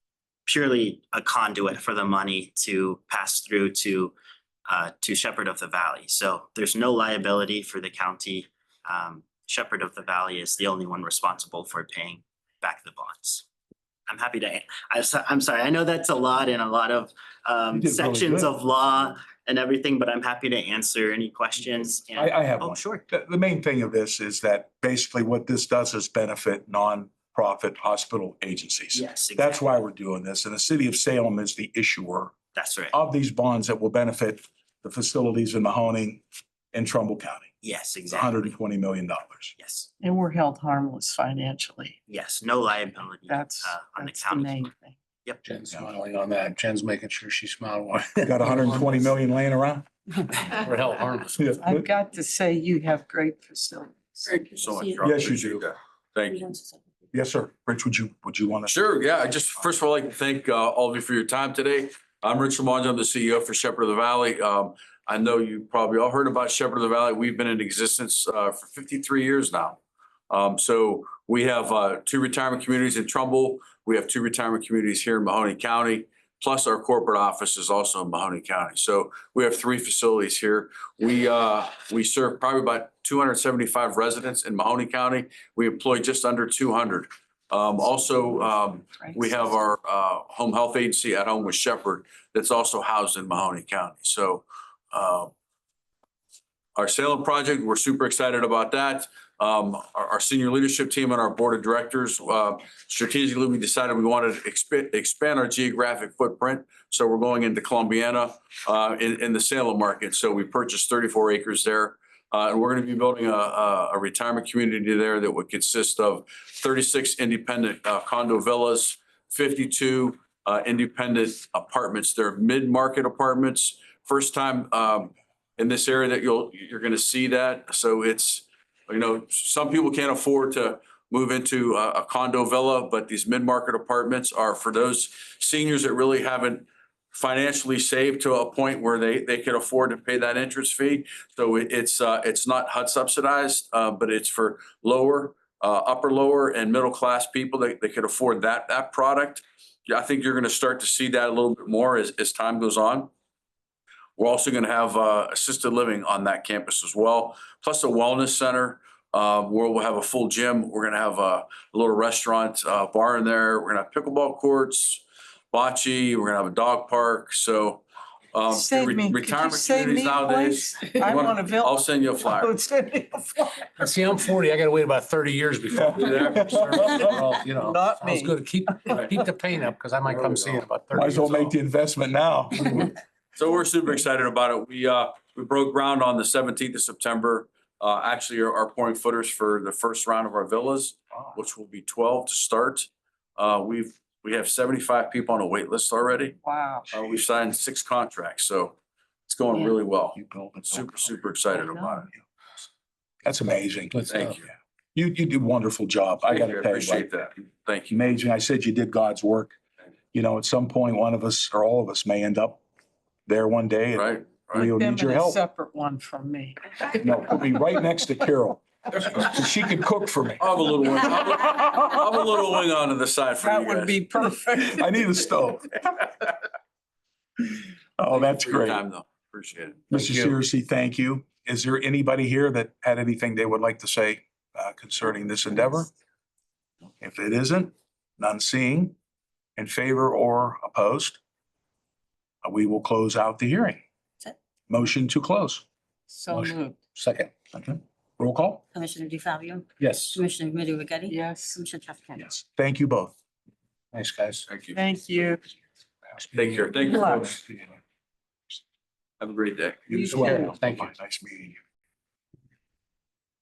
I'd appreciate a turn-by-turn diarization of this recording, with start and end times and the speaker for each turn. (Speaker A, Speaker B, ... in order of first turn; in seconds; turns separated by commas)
Speaker A: 0.5-4.1, Speaker A: 4.7-13.4, Speaker A: 14.1-23.0, Speaker B: 17.7-18.5, Speaker B: 22.1-32.3, Speaker A: 28.9-29.6, Speaker A: 32.5-33.0, Speaker B: 32.9-37.5, Speaker A: 37.6-38.3, Speaker B: 38.1-39.5, Speaker A: 39.6-39.9, Speaker C: 40.0-42.0, Speaker A: 42.1-44.7, Speaker C: 43.2-44.9, Speaker D: 45.4-49.1, Speaker B: 48.2-49.8, Speaker D: 50.5-51.6, Speaker B: 51.4-51.9, Speaker C: 51.6-54.5, Speaker E: 54.5-56.5, Speaker B: 55.0-55.6, Speaker F: 56.3-56.8, Speaker B: 57.1-58.7, Speaker E: 58.6-95.3, Speaker C: 88.8-89.4, Speaker E: 96.8-153.1, Speaker E: 154.2-172.5, Speaker C: 168.5-173.7, Speaker D: 173.8-181.5, Speaker B: 175.7-177.3, Speaker E: 175.9-177.1, Speaker C: 177.6-179.2, Speaker E: 180.1-180.6, Speaker B: 180.9-182.9, Speaker E: 183.3-196.3, Speaker C: 196.4-196.9, Speaker E: 196.9-198.8, Speaker E: 199.3-200.2, Speaker C: 199.5-199.8, Speaker B: 200.1-201.2, Speaker E: 200.7-202.1, Speaker C: 201.5-202.0, Speaker B: 203.2-204.1, Speaker D: 203.9-204.4, Speaker E: 204.1-204.4, Speaker B: 204.9-207.1, Speaker E: 206.2-208.0, Speaker B: 207.9-209.5, Speaker B: 210.1-212.6, Speaker B: 213.2-215.4, Speaker E: 213.9-214.7, Speaker C: 214.6-217.1, Speaker B: 217.0-220.5, Speaker E: 220.4-224.0, Speaker C: 223.4-225.0, Speaker B: 224.6-225.7, Speaker B: 228.0-228.8, Speaker E: 228.1-229.9, Speaker B: 229.9-235.9, Speaker D: 229.9-230.4, Speaker B: 237.0-238.9, Speaker B: 239.6-241.2, Speaker B: 242.4-243.8, Speaker B: 244.7-245.6, Speaker C: 246.1-246.8, Speaker D: 246.3-247.3, Speaker B: 247.5-248.6, Speaker F: 248.7-249.6, Speaker D: 249.8-250.2, Speaker F: 250.1-252.0, Speaker C: 251.1-252.3, Speaker B: 252.2-253.1, Speaker D: 253.9-254.4, Speaker E: 254.5-254.8, Speaker C: 254.7-255.4, Speaker D: 256.2-256.9, Speaker E: 256.3-257.4, Speaker C: 256.9-257.3, Speaker B: 257.2-257.7, Speaker E: 259.2-259.8, Speaker B: 259.9-261.6, Speaker C: 259.9-260.5, Speaker D: 260.2-260.9